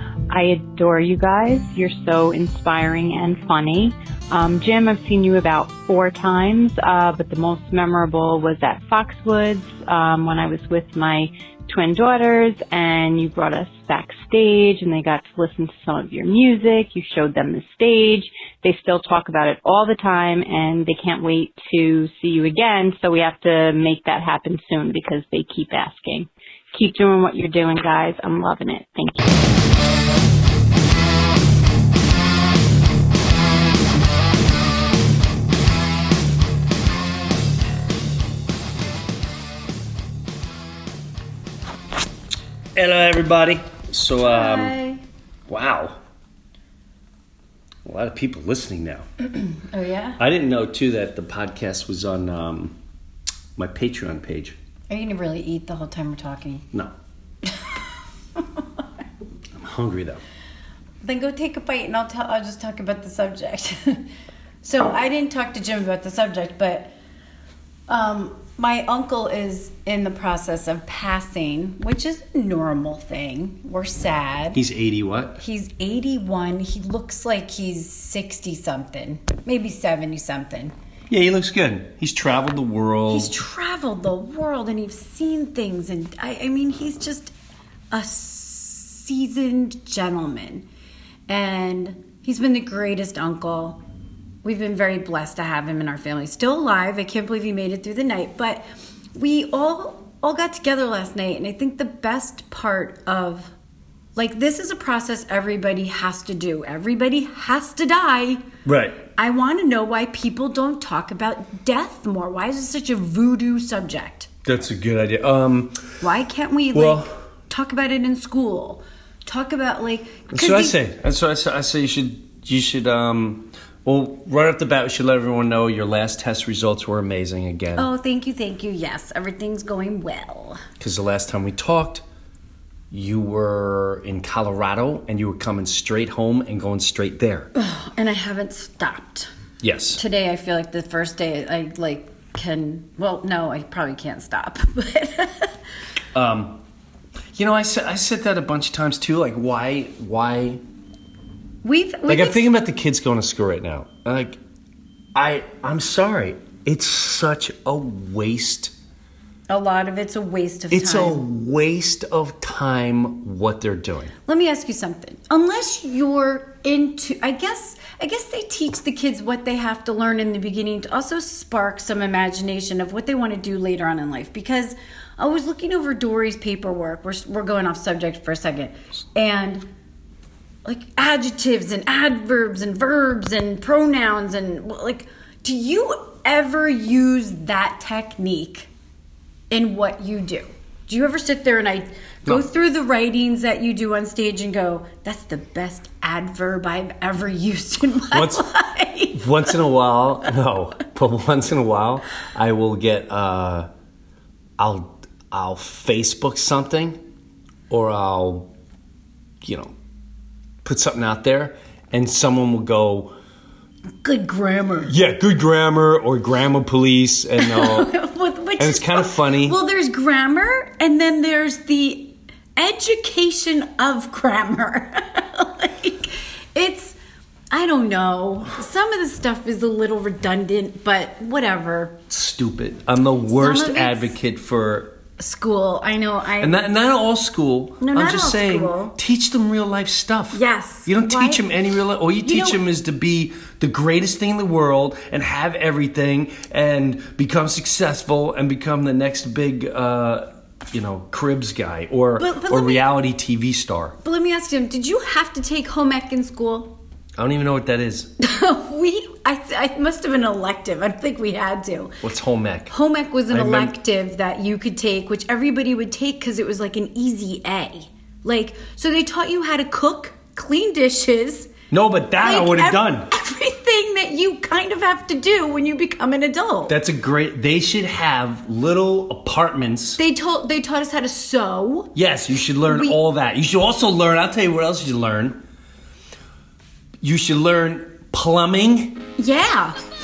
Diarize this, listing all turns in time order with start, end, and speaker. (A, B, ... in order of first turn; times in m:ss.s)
0:00.3-0:29.4 A
0:42.7-0:44.8 B
0:44.2-0:45.0 C
0:45.5-0:46.0 B
0:47.8-0:49.1 B
0:49.5-0:50.2 C
0:50.2-0:52.8 B
0:53.6-0:54.6 B
0:54.9-0:56.6 C
0:58.4-0:58.6 C
0:59.6-1:00.2 B
1:01.0-1:04.0 C
1:04.6-1:06.9 C
1:07.9-1:14.6 C
1:14.5-1:15.4 B
1:15.4-1:20.7 C
1:21.1-1:23.3 B
1:23.1-1:27.3 C
1:27.9-1:30.6 C
1:31.3-1:33.8 C
1:34.4-1:38.6 C
1:39.1-1:43.5 C
1:44.1-1:48.4 C
1:48.6-1:49.0 B
1:49.1-1:54.3 C
1:54.4-1:55.8 B
1:56.0-2:00.8 C
1:56.7-1:57.1 B
2:00.3-2:07.9 B
2:07.8-2:10.6 C
2:10.8-2:12.0 B
2:12.9-2:17.5 B
2:17.5-2:19.3 C
2:19.6-2:20.0 B
2:20.0-2:25.5 C
2:26.1-2:26.6 B
2:27.3-2:30.6 B
2:31.6-2:32.5 C
2:32.1-2:34.4 B
2:35.1-2:38.7 B
2:39.5-2:41.2 C
2:40.7-2:44.1 B
2:44.2-2:59.6 C
3:00.6-3:08.7 C
3:09.5-3:19.6 C
3:18.1-3:18.4 B
3:19.1-3:23.7 B
3:24.6-3:27.0 B
3:27.7-3:28.5 B
3:29.4-3:29.7 B
3:30.6-3:33.1 B
3:34.0-3:34.9 C
3:34.8-3:37.9 B
3:37.4-3:47.0 C
3:38.6-3:39.6 B
3:47.5-3:51.9 C
3:52.1-3:55.0 B
3:53.3-3:54.1 C
3:55.2-3:56.6 C
3:56.4-4:14.0 B
3:57.8-3:59.0 C
4:00.3-4:01.4 C
4:02.2-4:02.6 C
4:12.2-4:12.8 C
4:14.0-4:16.7 C
4:17.2-4:18.1 B
4:18.2-4:22.0 C
4:22.0-4:22.7 B
4:22.7-4:31.5 C
4:23.3-4:23.7 B
4:31.7-4:33.1 B
4:32.2-4:36.7 C
4:36.7-4:40.0 B
4:40.0-4:42.0 C
4:41.9-4:45.4 B
4:42.6-4:43.0 C
4:47.0-4:49.0 B
4:49.2-4:49.8 C